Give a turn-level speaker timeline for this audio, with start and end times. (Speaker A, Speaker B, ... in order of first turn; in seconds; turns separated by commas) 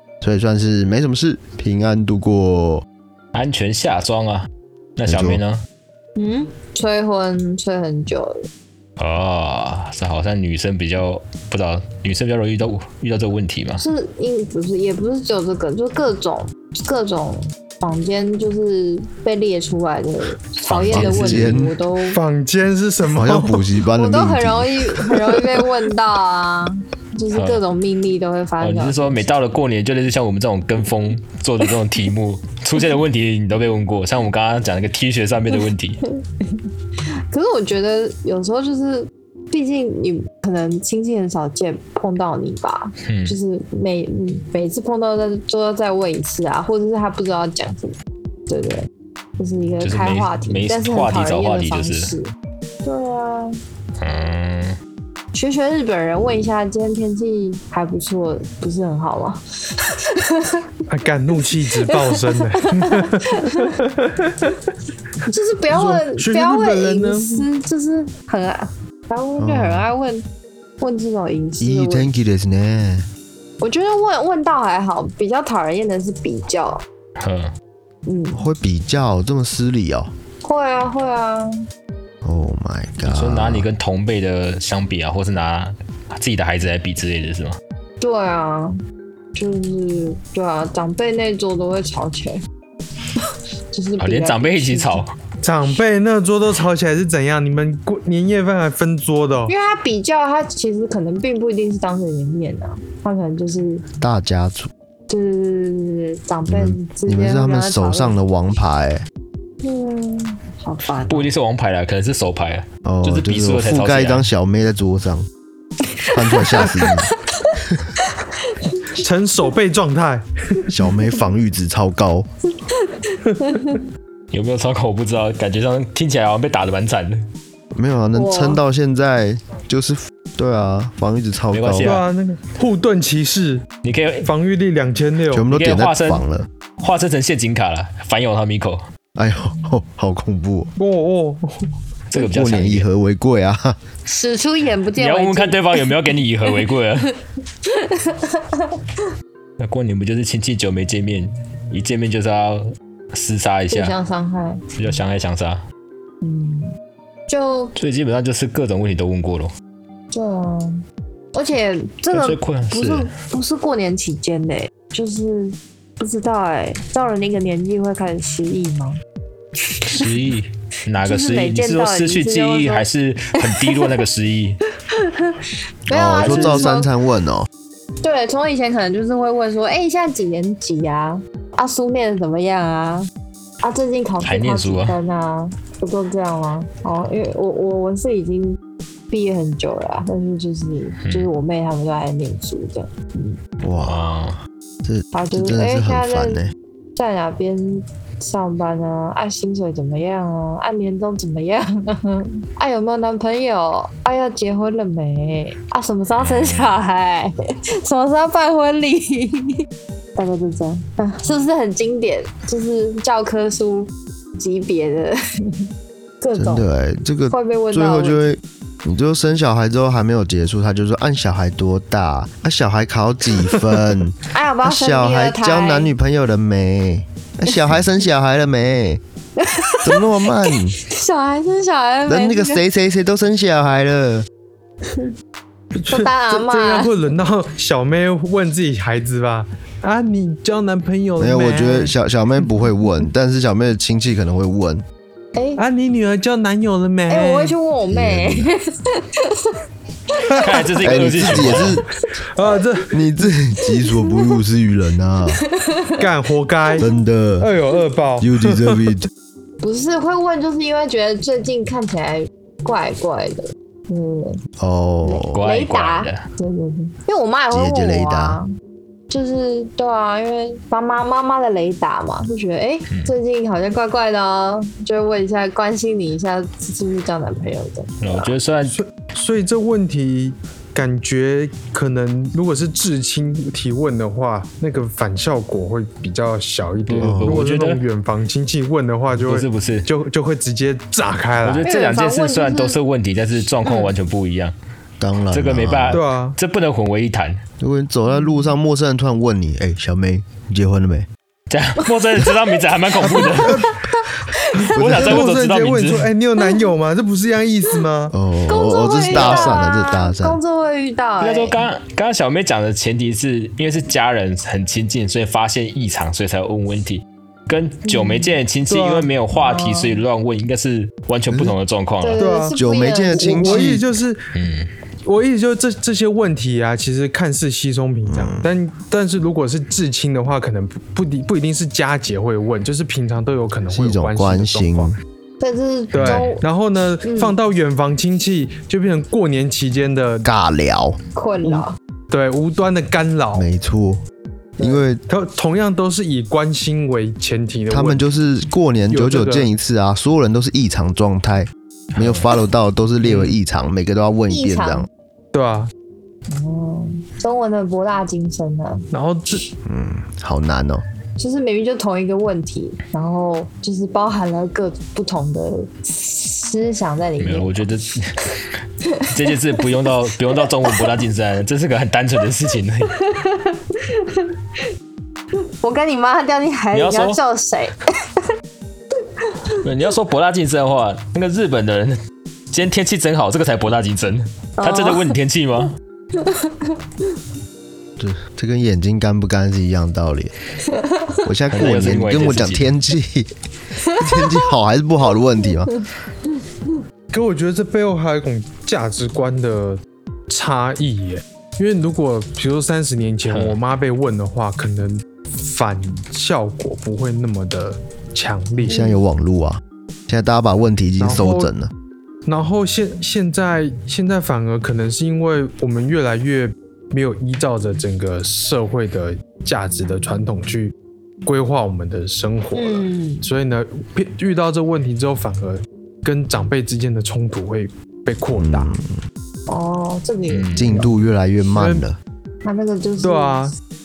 Speaker A: 0.2-2.9, Speaker B: 3.3-5.6, Speaker A: 5.1-5.4, Speaker C: 6.2-8.4, Speaker B: 9.0-13.8, Speaker C: 13.8-22.2, Speaker B: 20.6-21.7, Speaker A: 20.9-21.7, Speaker D: 22.1-23.6, Speaker A: 23.1-24.9, Speaker C: 23.9-29.3, Speaker B: 27.3-27.6, Speaker B: 28.6-36.0, Speaker C: 36.1-48.0, Speaker B: 43.0-43.4, Speaker C: 48.5-52.3, Speaker B: 49.8-52.1, Speaker C: 52.8-53.6, Speaker B: 54.0-54.8, Speaker C: 55.3-60.7, Speaker D: 60.9-64.7, Speaker C: 61.8-63.7, Speaker C: 65.3-70.2, Speaker D: 65.7-67.5, Speaker A: 69.4-69.9, Speaker C: 70.8-72.1, Speaker A: 71.6-73.1, Speaker C: 73.6-76.8, Speaker B: 77.2-77.5, Speaker C: 78.1-78.4, Speaker A: 78.3-80.1, Speaker C: 80.4-81.6, Speaker A: 82.2-83.7, Speaker B: 83.1-87.6, Speaker C: 88.0-88.8, Speaker C: 89.3-92.4, Speaker C: 93.2-95.0, Speaker B: 94.0-95.1, Speaker D: 95.4-99.5, Speaker C: 99.5-103.8, Speaker A: 104.0-104.7, Speaker C: 105.1-108.2, Speaker A: 106.5-109.0, Speaker C: 109.6-111.3, Speaker B: 111.1-114.3, Speaker A: 112.8-115.3, Speaker C: 115.8-119.0, Speaker A: 116.1-117.1, Speaker D: 119.0-120.7, Speaker A: 120.7-122.3, Speaker C: 122.6-123.8, Speaker B: 124.3-127.2, Speaker A: 127.7-132.0, Speaker C: 128.1-128.6, Speaker B: 131.5-132.1, Speaker D: 131.8-133.7, Speaker B: 133.8-134.3, Speaker D: 134.2-135.5, Speaker A: 135.3-136.5, Speaker B: 135.5-136.2, Speaker B: 136.8-138.8, Speaker A: 139.2-140.7, Speaker D: 140.8-141.7, Speaker B: 142.1-142.9, Speaker A: 142.2-143.8, Speaker C: 144.1-149.0, Speaker B: 145.0-147.1, Speaker B: 149.6-153.9, Speaker C: 153.7-155.0, Speaker B: 154.8-155.6, Speaker C: 156.2-156.7, Speaker C: 157.3-157.7, Speaker B: 157.8-159.5, Speaker C: 160.1-160.8, Speaker C: 161.3-169.0, Speaker B: 162.1-163.1, Speaker C: 169.6-170.2, Speaker B: 169.9-174.6, Speaker C: 171.0-172.9, Speaker C: 173.4-173.9, Speaker C: 174.9-176.9, Speaker A: 175.9-177.5, Speaker B: 176.2-176.7, Speaker C: 178.0-183.1, Speaker C: 183.6-188.6, Speaker B: 184.2-185.0, Speaker C: 189.1-193.4, Speaker B: 191.1-191.3, Speaker A: 193.6-194.1, Speaker B: 193.8-194.4, Speaker A: 194.8-196.5, Speaker C: 195.1-196.4, Speaker C: 197.0-209.7, Speaker B: 206.2-206.8, Speaker C: 210.2-215.7, Speaker C: 216.2-216.7, Speaker A: 216.4-229.0, Speaker C: 217.3-218.2, Speaker C: 224.3-225.9, Speaker C: 229.4-232.6, Speaker A: 229.8-230.8, Speaker A: 232.1-234.3, Speaker C: 234.8-235.1, Speaker D: 235.8-241.9, Speaker C: 235.9-237.0, Speaker A: 241.2-244.8, Speaker C: 245.4-245.6, Speaker D: 245.6-247.6, Speaker C: 247.1-249.6, Speaker A: 247.9-248.5, Speaker C: 250.1-250.9, Speaker B: 250.3-251.8, Speaker A: 250.8-251.9, Speaker D: 252.2-253.0, Speaker A: 252.9-255.4, Speaker C: 253.6-254.4, Speaker C: 255.3-256.1, Speaker D: 256.0-256.9, Speaker A: 256.8-257.5, Speaker D: 257.4-258.9, Speaker A: 258.2-259.1, Speaker C: 259.6-264.4, Speaker A: 264.6-265.4, Speaker C: 265.0-268.5, Speaker B: 265.3-266.2, Speaker A: 267.5-268.4, Speaker C: 269.1-278.3, Speaker B: 278.0-278.8, Speaker D: 278.7-291.7, Speaker B: 286.9-287.8, Speaker A: 287.0-287.4, Speaker B: 289.2-289.9, Speaker B: 291.4-294.5, Speaker C: 291.6-292.8, Speaker C: 293.6-293.9, Speaker A: 295.0-296.0, Speaker B: 295.3-297.4, Speaker D: 295.9-296.4, Speaker A: 297.6-301.1, Speaker C: 298.1-298.5, Speaker B: 301.5-303.8, Speaker C: 301.8-304.7, Speaker D: 303.3-303.7, Speaker D: 304.6-308.1, Speaker B: 304.6-306.1, Speaker A: 304.8-305.2, Speaker A: 308.1-310.4, Speaker C: 308.5-311.7, Speaker B: 309.1-309.6, Speaker B: 311.2-322.3, Speaker C: 317.9-318.4, Speaker D: 318.7-319.1, Speaker C: 319.3-320.0, Speaker C: 322.0-323.8, Speaker D: 322.2-322.6, Speaker A: 322.6-323.8, Speaker D: 323.1-324.3, Speaker B: 324.3-324.7, Speaker D: 325.1-334.9, Speaker A: 328.1-328.5, Speaker A: 333.7-335.0, Speaker C: 335.4-336.4, Speaker D: 335.9-340.3, Speaker C: 337.0-337.4, Speaker A: 340.2-341.0, Speaker C: 341.1-341.8, Speaker D: 342.1-343.5, Speaker A: 343.4-344.0, Speaker D: 344.6-348.0, Speaker A: 344.6-345.0, Speaker A: 347.7-354.9, Speaker D: 348.9-349.5, Speaker B: 351.9-352.3, Speaker D: 353.0-353.4, Speaker C: 354.3-354.9, Speaker D: 355.3-355.7, Speaker C: 356.3-358.9, Speaker D: 358.9-359.4, Speaker A: 359.6-360.8, Speaker C: 361.2-367.7, Speaker B: 367.2-368.2, Speaker C: 368.8-370.9, Speaker B: 369.1-372.9, Speaker C: 372.9-374.6, Speaker C: 375.3-378.2, Speaker B: 376.7-377.2, Speaker C: 379.0-379.6, Speaker B: 379.6-382.0, Speaker B: 382.5-385.7, Speaker C: 384.6-385.1, Speaker C: 386.1-387.1, Speaker A: 388.0-390.3, Speaker C: 390.6-391.3, Speaker A: 391.2-393.3, Speaker B: 391.5-392.7, Speaker C: 393.8-394.5, Speaker A: 393.9-395.8, Speaker C: 395.5-395.8, Speaker C: 396.3-396.8, Speaker D: 397.1-408.8, Speaker B: 403.3-403.6, Speaker C: 408.6-409.0, Speaker A: 408.7-411.7, Speaker D: 411.0-411.5, Speaker D: 412.3-420.7, Speaker D: 421.2-428.8, Speaker C: 422.6-423.3, Speaker A: 428.4-428.9, Speaker C: 429.5-430.9, Speaker B: 430.3-430.7, Speaker A: 430.6-432.0, Speaker D: 431.6-431.8, Speaker C: 432.4-433.5, Speaker D: 433.0-433.6